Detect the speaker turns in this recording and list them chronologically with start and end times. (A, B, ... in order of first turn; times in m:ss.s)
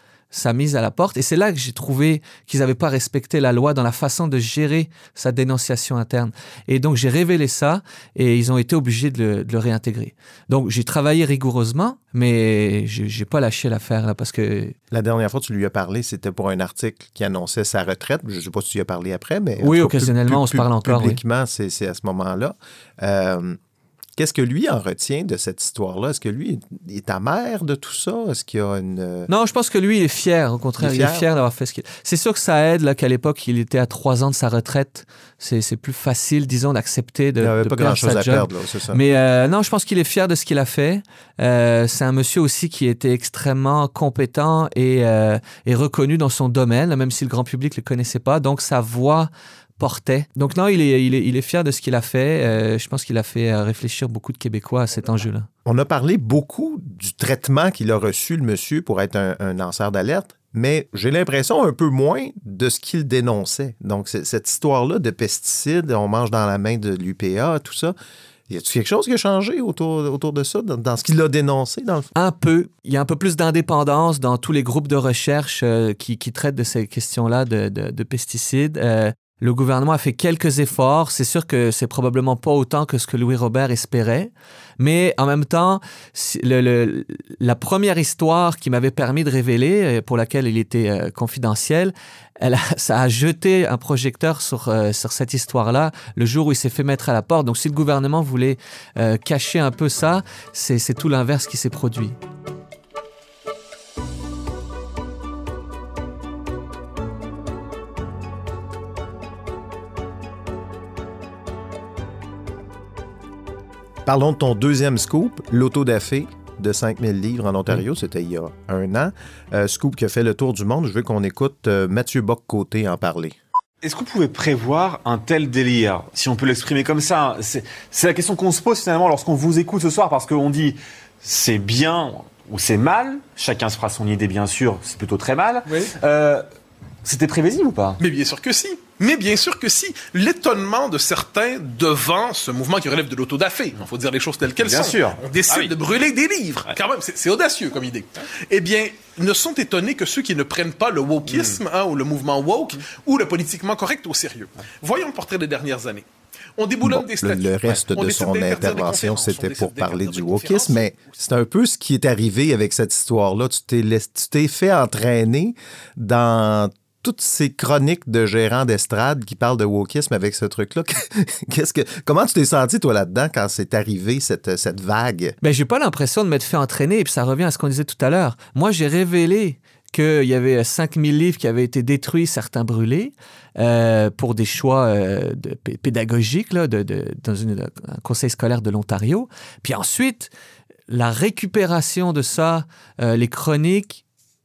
0:00.3-0:14.8 A
0:14.9-0:23.6 B
0:19.6-0:21.2 A
0:24.2-0:29.3 B
0:29.3-0:55.5 A
0:30.8-0:31.3 B
0:37.4-0:39.0 B
0:55.6-1:08.0 B
1:08.5-1:12.1 B
1:12.2-1:42.2 A
1:54.0-2:03.4 B
2:03.8-2:16.4 C
2:17.0-2:18.0 C
2:18.0-2:36.0 D
2:24.6-2:25.7 C
2:36.6-2:41.0 D
2:36.8-2:55.4 B
2:55.4-3:10.3 A
3:10.9-3:14.0 A